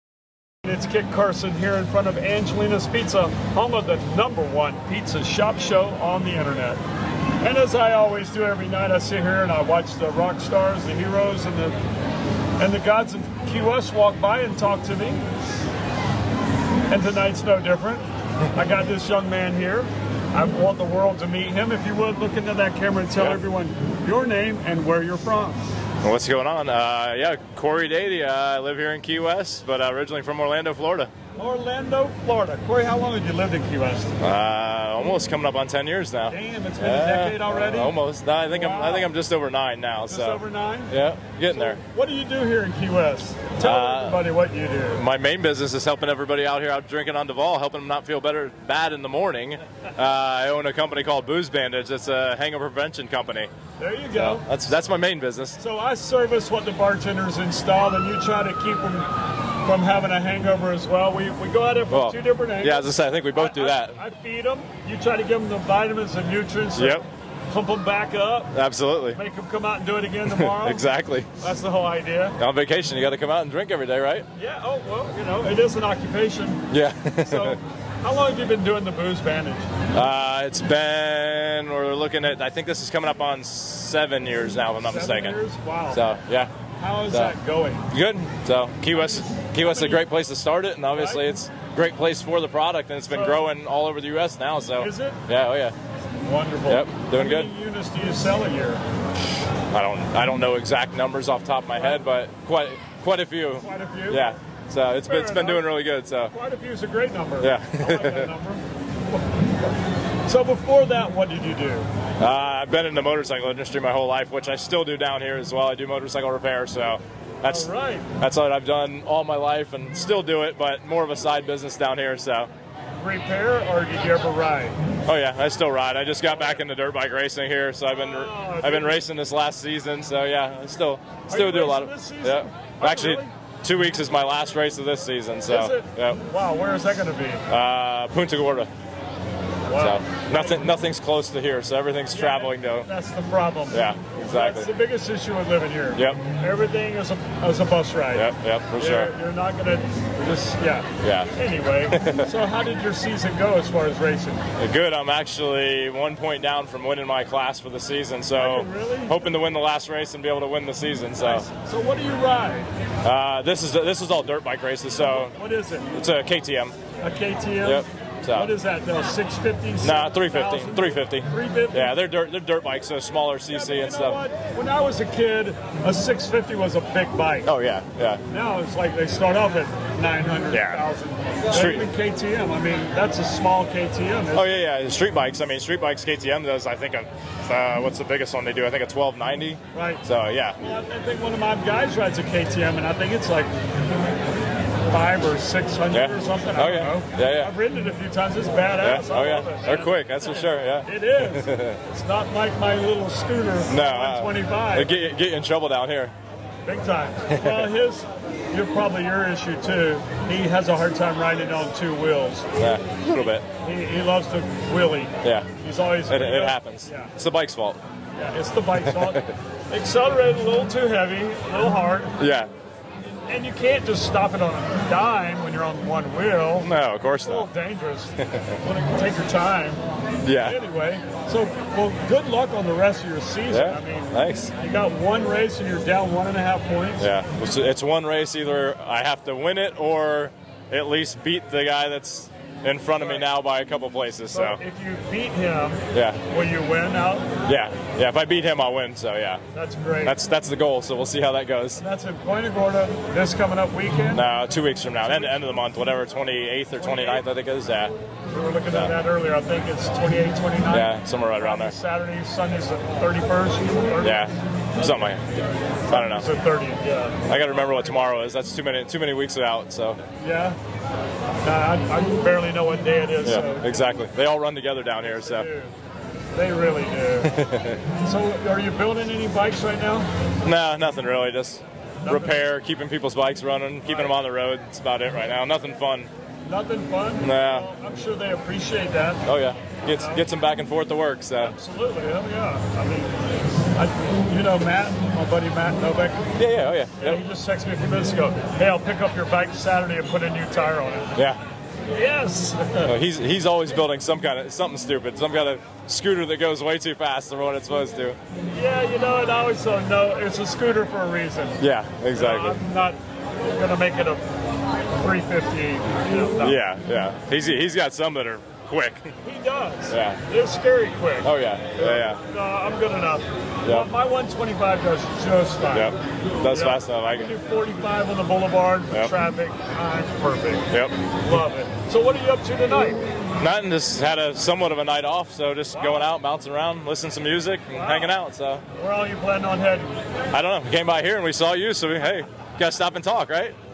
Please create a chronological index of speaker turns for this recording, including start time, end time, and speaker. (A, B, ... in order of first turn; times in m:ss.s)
0:00.6-0:06.8 A
0:07.4-0:11.8 A
0:12.6-0:15.3 A
0:16.9-0:25.6 A
0:26.0-0:31.1 B
0:31.4-0:34.2 A
0:34.2-0:41.8 B
0:36.3-0:38.0 A
0:38.5-0:39.1 A
0:40.1-0:41.0 A
0:41.5-0:45.0 A
0:43.6-0:44.2 B
0:44.9-0:53.5 B
0:53.8-0:54.4 A
0:54.1-0:55.6 B
0:55.6-1:08.6 A
1:01.9-1:04.0 B
1:06.8-1:07.1 B
1:08.5-1:09.2 B
1:09.1-1:12.4 A
1:10.2-1:11.4 B
1:12.4-1:14.3 B
1:14.3-1:16.7 A
1:16.7-1:17.6 B
1:17.2-1:19.7 A
1:19.9-1:25.4 B
1:24.8-1:26.1 A
1:25.9-1:26.5 B
1:26.8-1:27.9 A
1:27.9-1:35.8 B
1:29.4-1:30.0 A
1:30.9-1:31.3 A
1:33.1-1:33.4 A
1:34.8-1:35.2 A
1:36.2-1:38.8 A
1:36.7-1:37.5 B
1:39.7-1:46.3 B
1:43.6-1:44.3 A
1:45.0-1:49.4 A
1:47.4-1:48.3 B
1:50.2-1:51.9 A
1:52.2-2:02.5 B
1:57.4-1:58.1 A
2:03.0-2:04.8 A
2:05.1-2:16.2 B
2:06.2-2:06.6 A
2:07.9-2:09.0 A
2:11.3-2:13.3 A
2:15.5-2:17.4 A
2:17.5-2:18.7 B
2:19.7-2:20.7 A
2:19.8-2:22.9 B
2:22.1-2:34.4 A
2:23.7-2:24.7 B
2:26.0-2:26.2 B
2:28.1-2:29.1 B
2:31.0-2:31.3 B
2:31.9-2:32.3 B
2:34.6-2:41.5 B
2:38.4-2:39.3 A
2:41.2-2:42.7 A
2:43.0-2:45.4 B
2:45.1-2:46.0 A
2:45.9-2:46.8 B
2:47.0-2:51.9 A
2:47.6-2:48.6 B
2:49.8-2:54.2 B
2:53.5-2:57.5 A
2:57.4-2:58.2 B
2:58.3-3:04.5 A
3:00.5-3:00.8 B
3:01.5-3:01.9 B
3:04.3-3:10.6 B
3:09.7-3:10.0 A
3:10.6-3:13.5 A
3:14.9-3:25.0 A
3:15.9-3:17.5 B
3:18.7-3:21.8 B
3:23.7-3:26.1 B
3:26.6-3:32.5 A
3:27.3-3:27.8 B
3:32.6-3:33.5 B
3:33.6-3:37.1 A
3:35.2-3:35.5 B
3:36.1-3:37.8 B
3:38.2-3:42.1 A
3:38.8-3:39.3 B
3:42.2-3:42.5 B
3:43.3-3:46.7 A
3:46.6-3:47.5 B
3:47.2-3:49.8 A
3:48.2-3:48.6 B
3:50.2-3:50.6 B
3:50.4-3:57.1 A
3:53.5-3:54.5 B
3:57.0-4:04.6 B
4:03.0-4:03.3 A
4:04.3-4:07.3 A
4:05.9-4:06.2 B
4:07.4-4:09.4 B
4:09.5-4:10.2 A
4:10.0-4:11.8 B
4:11.8-4:14.2 A
4:14.1-4:18.0 B
4:15.0-4:15.5 A
4:16.7-4:17.3 A
4:18.3-4:24.3 A
4:18.7-4:19.0 B
4:20.7-4:21.8 B
4:24.0-4:26.3 B
4:25.9-4:28.0 A
4:27.3-4:30.0 B
4:30.2-4:30.6 A
4:31.4-4:33.8 A
4:33.2-4:35.5 B
4:35.0-4:35.7 A
4:36.3-4:37.4 A
4:37.2-4:37.8 B
4:37.9-4:40.1 A
4:40.4-4:46.1 B
4:42.0-4:42.4 A
4:43.8-4:44.2 A
4:46.4-4:49.3 A
4:47.2-4:47.7 B
4:49.2-4:51.6 B
4:49.9-4:50.2 A
4:51.4-4:53.2 A
4:53.8-4:56.3 A
4:56.4-4:57.2 B
4:57.0-5:01.1 A
5:01.2-5:01.4 B
5:01.9-5:02.9 A
5:02.8-5:08.2 B
5:08.5-5:11.6 A
5:11.6-5:12.6 B
5:12.1-5:14.2 A
5:15.0-5:16.6 A
5:16.4-5:19.1 B
5:19.2-5:26.0 A
5:19.9-5:20.2 B
5:21.2-5:22.2 B
5:25.7-5:27.3 B
5:26.5-5:33.0 A
5:30.7-5:31.0 B
5:33.4-5:38.6 B
5:35.7-5:36.1 A
5:37.7-5:38.2 A
5:38.7-5:40.0 A
5:40.3-5:43.6 B